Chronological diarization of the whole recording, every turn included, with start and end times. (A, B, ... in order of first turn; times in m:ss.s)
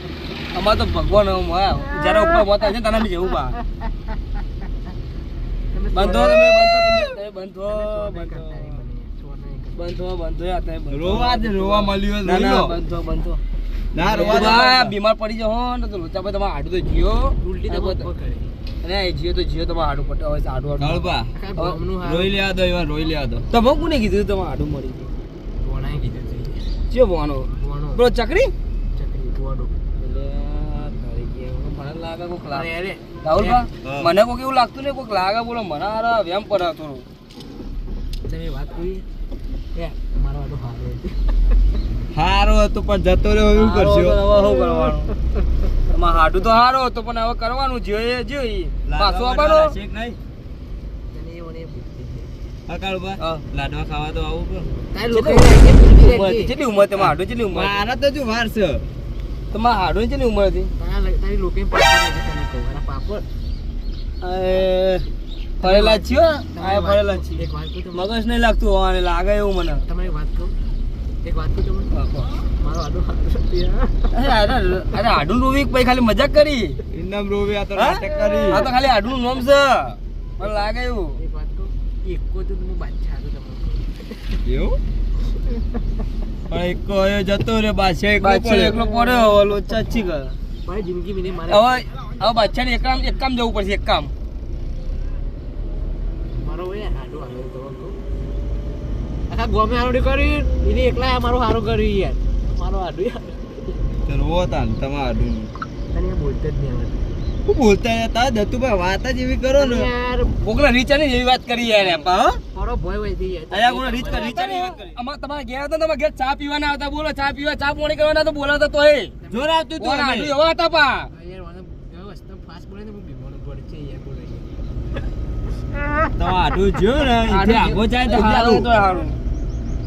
0:00.5-0:03.6 A
0:05.7-0:07.0 B
0:05.9-0:08.8 A
0:07.7-0:10.0 B
0:09.8-0:13.4 A
0:10.9-0:12.8 C
0:13.9-0:14.9 C
0:14.0-0:14.6 B
0:14.0-0:18.0 A
0:17.3-0:18.5 B
0:18.8-0:21.8 A
0:20.8-0:21.3 C
0:21.4-0:22.3 B
0:22.0-0:23.4 C
0:23.5-0:25.1 A
0:25.6-0:26.6 B
0:26.9-0:28.5 A
0:27.6-0:28.0 B
0:28.9-0:29.7 B
0:30.0-0:32.7 A
0:32.5-0:33.6 B
0:33.2-0:37.0 A
0:33.8-0:34.1 C
0:38.2-0:39.0 B
0:39.7-0:41.3 B
0:42.1-0:44.2 C
0:43.5-0:45.1 A
0:45.9-0:49.7 A
0:48.8-0:50.2 C
0:51.1-0:52.3 B
0:52.7-0:54.7 C
0:53.2-0:53.4 A
0:54.9-0:56.5 B
0:55.1-0:57.8 A
0:57.0-0:58.8 C
0:59.5-1:00.7 A
1:00.8-1:03.2 B
1:04.2-1:05.0 A
1:05.6-1:09.8 A
1:05.6-1:08.1 B
1:09.8-1:10.6 B
1:11.2-1:11.9 B
1:11.9-1:12.3 A
1:12.5-1:14.1 B
1:14.1-1:16.8 A
1:16.9-1:18.7 C
1:17.8-1:21.2 A
1:20.4-1:24.0 B
1:24.4-1:24.8 C
1:26.5-1:28.8 C
1:28.2-1:30.4 A
1:28.8-1:29.3 B
1:30.6-1:32.0 B
1:31.5-1:34.1 A
1:36.3-1:38.0 B
1:39.3-1:43.8 B
1:44.0-1:45.5 C
1:45.9-1:47.1 B
1:47.4-1:49.9 C
1:49.6-1:50.4 B
1:50.4-1:52.4 A
1:51.8-1:54.5 B
1:53.5-1:59.1 A
1:54.0-1:54.9 C
1:59.2-1:59.5 B
1:59.3-2:00.3 C
1:59.8-2:01.1 A
2:01.1-2:04.7 B
2:06.2-2:08.7 C
2:07.3-2:09.2 A